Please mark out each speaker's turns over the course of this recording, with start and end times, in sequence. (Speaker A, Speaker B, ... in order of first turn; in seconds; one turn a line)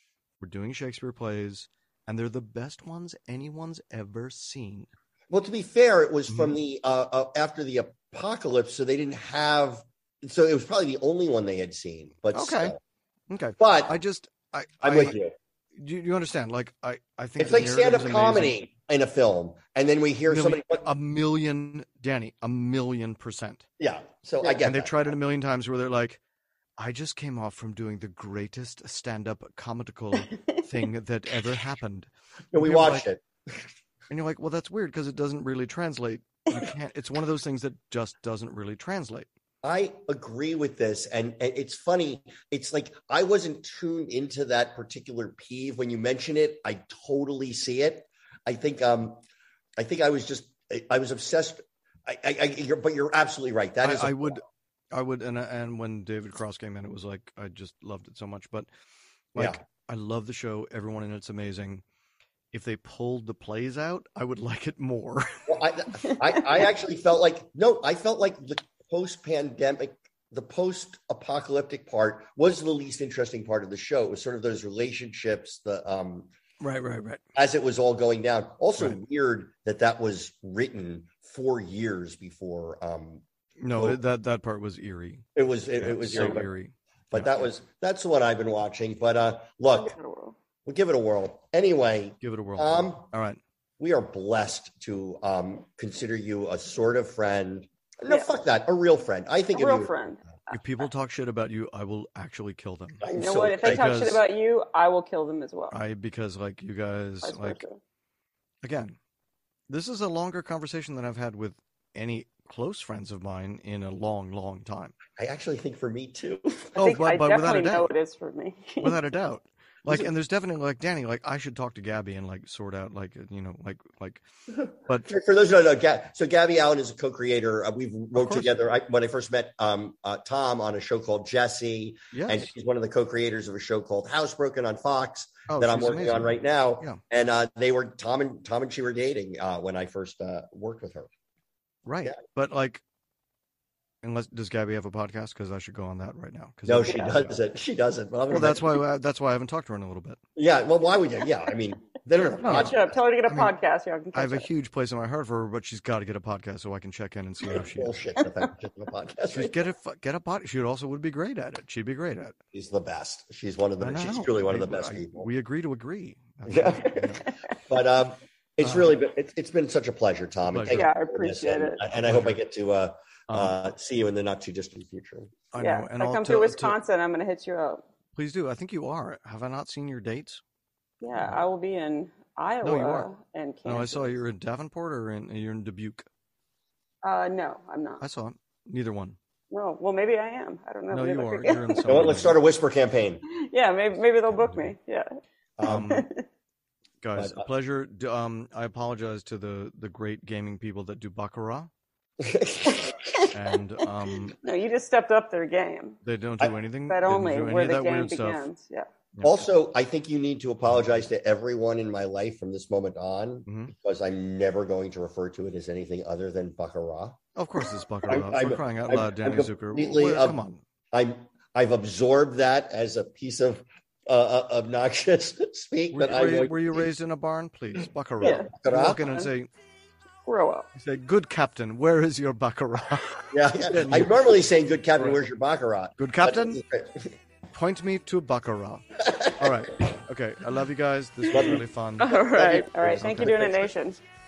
Speaker A: 0.4-4.9
Speaker B: 5.3-12.8
Speaker A: 6.3-6.5
Speaker A: 12.3-12.8
Speaker A: 13.3-15.2
Speaker B: 13.6-13.9
Speaker B: 14.8-15.3
Speaker A: 15.8-18.5
Speaker B: 17.4-20.8
Speaker A: 20.3-23.7
Speaker B: 23.8-24.9
Speaker A: 24.6-26.2
Speaker A: 26.8-33.0
Speaker B: 32.5-33.6
Speaker A: 34.1-39.3
Speaker B: 39.6-49.2
Speaker B: 49.8-54.4
Speaker A: 53.8-58.7
Speaker A: 59.3-61.8
Speaker B: 59.4-59.6
Speaker A: 62.5-65.5
Speaker B: 65.5-76.3
Speaker A: 76.6-77.2
Speaker B: 77.4-83.2
Speaker A: 83.6-85.3
Speaker B: 85.4-86.5
Speaker A: 85.8-87.4
Speaker B: 87.1-90.0
Speaker C: 89.8-90.3
Speaker B: 90.7-93.1
Speaker A: 92.2-93.4
Speaker B: 93.8-99.9
Speaker C: 98.1-98.4
Speaker C: 99.5-100.6
Speaker A: 100.5-103.0
Speaker B: 103.0-103.9
Speaker C: 103.1-105.8
Speaker A: 103.6-104.2
Speaker A: 105.7-107.6
Speaker C: 107.2-107.8
Speaker A: 108.6-109.0
Speaker A: 109.7-114.9
Speaker B: 115.2-116.8
Speaker C: 116.8-119.0
Speaker A: 116.8-117.9
Speaker A: 118.8-124.2
Speaker B: 125.1-141.1
Speaker A: 128.2-128.5
Speaker A: 132.1-132.5
Speaker A: 135.5-137.0
Speaker A: 141.9-142.8
Speaker A: 144.0-147.4
Speaker B: 146.7-148.8
Speaker A: 148.3-150.2
Speaker B: 150.4-152.9
Speaker A: 152.4-152.8
Speaker C: 152.4-154.5
Speaker A: 153.3-153.5
Speaker A: 154.1-158.0
Speaker B: 157.5-159.6
Speaker A: 159.3-162.3
Speaker B: 162.5-165.3
Speaker A: 163.8-167.2
Speaker B: 166.5-175.3
Speaker A: 168.6-168.9
Speaker A: 170.5-170.8
Speaker C: 170.7-171.8
Speaker A: 171.9-172.4
Speaker A: 173.3-173.6
Speaker A: 175.5-176.8
Speaker C: 175.6-177.8
Speaker A: 178.2-180.4
Speaker C: 181.0-184.1
Speaker A: 182.6-183.1
Speaker A: 183.7-186.1
Speaker C: 187.0-188.0
Speaker A: 188.0-189.2
Speaker C: 189.5-192.0
Speaker A: 190.9-192.4
Speaker B: 191.9-193.2
Speaker C: 193.3-195.1
Speaker B: 195.6-195.9
Speaker A: 195.6-196.1
Speaker C: 195.9-196.2
Speaker A: 197.0-201.7
Speaker B: 197.2-197.4
Speaker B: 202.2-203.0
Speaker C: 202.9-203.3
Speaker A: 203.3-204.4
Speaker C: 204.4-206.0
Speaker A: 206.0-208.4
Speaker C: 206.9-208.9
Speaker A: 209.2-209.4
Speaker B: 209.2-217.2
Speaker A: 213.5-213.7
Speaker A: 217.4-220.6
Speaker B: 218.1-220.4
Speaker B: 220.9-226.9
Speaker A: 225.9-229.5
Speaker C: 228.2-229.3
Speaker B: 228.2-229.1
Speaker C: 230.3-230.7
Speaker A: 230.8-234.3
Speaker B: 233.3-237.2
Speaker A: 235.0-235.2
Speaker A: 236.0-236.6
Speaker A: 237.5-242.2
Speaker B: 239.0-239.5
Speaker B: 241.3-243.6
Speaker C: 242.0-244.0
Speaker A: 242.8-243.6